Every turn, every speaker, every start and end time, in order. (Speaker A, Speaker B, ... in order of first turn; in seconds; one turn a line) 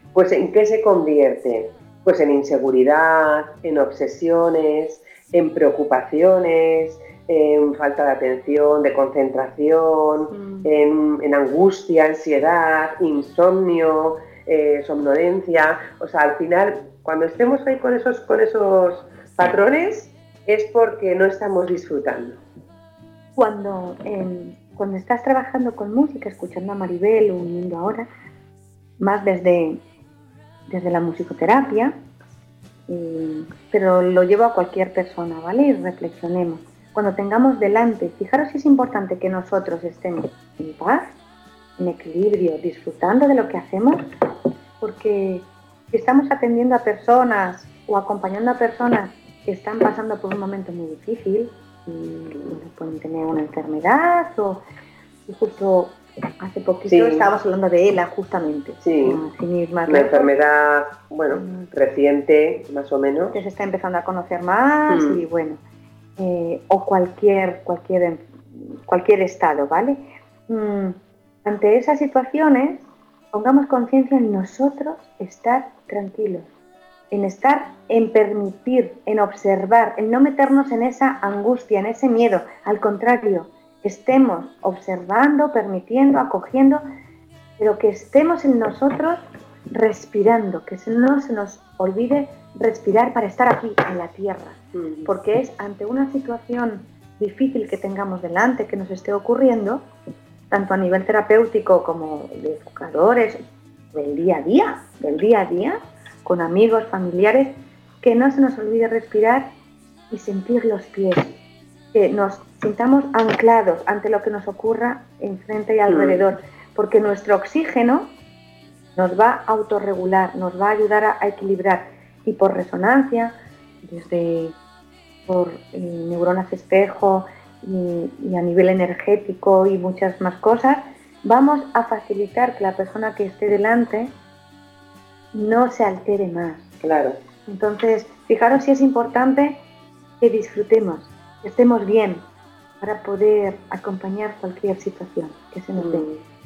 Speaker A: 0.1-22.4
Speaker B: 10.3-10.7
Speaker B: 23.4-28.1
Speaker B: 29.0-29.8
Speaker B: 30.7-31.9
Speaker B: 32.9-41.1
Speaker B: 41.8-44.1
Speaker B: 44.8-54.6
Speaker B: 55.3-60.3
Speaker A: 56.9-57.3
Speaker A: 58.8-59.2
Speaker A: 59.9-63.4
Speaker B: 61.3-61.7
Speaker B: 63.3-65.6
Speaker A: 64.9-65.2
Speaker B: 66.2-76.5
Speaker B: 77.1-86.8
Speaker B: 87.6-99.8
Speaker A: 94.7-95.1
Speaker B: 100.5-109.5
Speaker B: 110.1-111.4
Speaker B: 111.9-118.1
Speaker A: 115.9-116.2
Speaker B: 119.0-124.5
Speaker B: 125.3-134.1
Speaker B: 135.3-136.7
Speaker A: 136.8-137.2
Speaker B: 137.5-139.6
Speaker B: 140.2-142.2
Speaker B: 142.8-146.1
Speaker A: 145.8-146.2